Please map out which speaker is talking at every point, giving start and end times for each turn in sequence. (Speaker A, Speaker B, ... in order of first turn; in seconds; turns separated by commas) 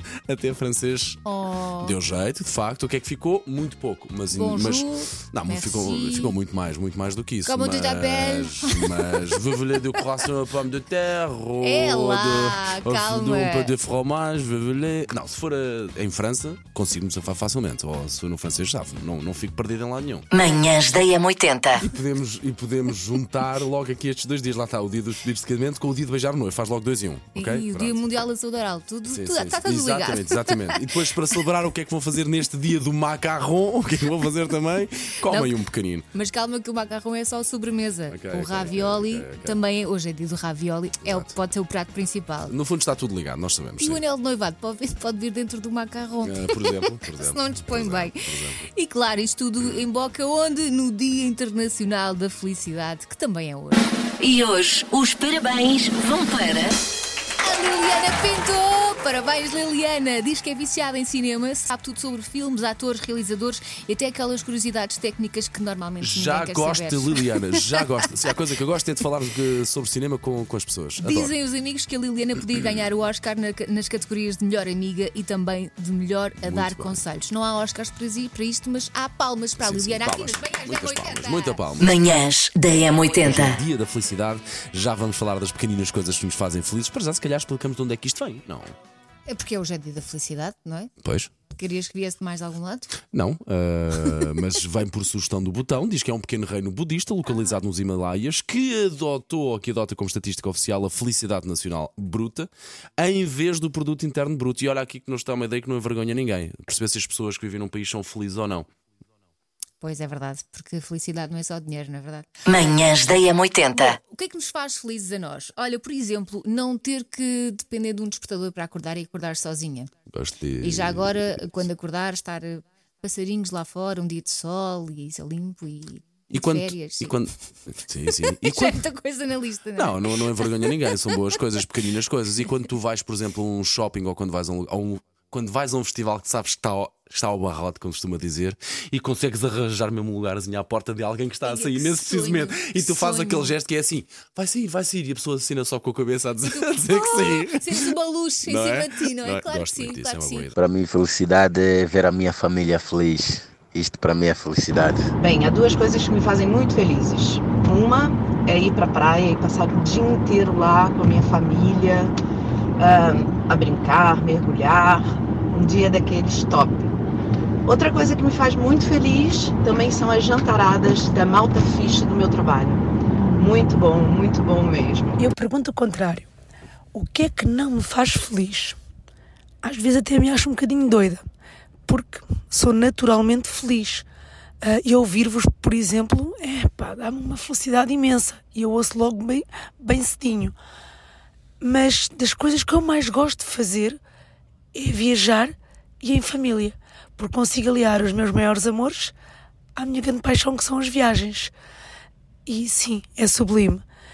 Speaker A: 0.3-1.2, Speaker B: 1.2-2.0, Speaker A: 1.8-20.2, Speaker B: 4.3-6.4, Speaker B: 7.4-10.3, Speaker B: 11.6-13.8, Speaker C: 20.3-21.9, Speaker A: 21.8-28.1, Speaker B: 27.3-31.4, Speaker A: 29.1-36.1, Speaker B: 35.2-42.5, Speaker A: 38.1-39.6, Speaker A: 41.0-41.3, Speaker A: 42.5-44.0, Speaker B: 43.8-53.9, Speaker A: 46.2-48.7, Speaker C: 54.2-56.8, Speaker B: 57.4-68.3, Speaker A: 66.0-71.3, Speaker B: 71.0-81.7, Speaker A: 76.4-77.0, Speaker A: 79.6-82.1, Speaker C: 81.8-83.6, Speaker A: 83.1-88.7, Speaker B: 89.3-93.0, Speaker A: 91.0-91.4, Speaker A: 93.1-108.7, Speaker B: 109.8-112.3, Speaker C: 112.5-114.0, Speaker B: 113.7-119.9, Speaker A: 120.1-121.2, Speaker B: 120.6-127.3, Speaker A: 126.3-128.8, Speaker B: 128.0-131.4, Speaker A: 129.8-150.6, Speaker B: 141.4-143.6, Speaker B: 146.4-150.5, Speaker D: 150.6-155.1, Speaker E: 155.2-162.2, Speaker E: 162.8-166.9, Speaker E: 167.7-172.8, Speaker E: 173.4-175.2, Speaker F: 175.2-176.3, Speaker F: 176.9-178.8, Speaker F: 179.6-181.2, Speaker F: 181.9-184.1, Speaker F: 184.6-190.6, Speaker F: 191.6-194.0, Speaker F: 194.7-199.1, Speaker F: 199.8-201.5, Speaker F: 202.5-203.8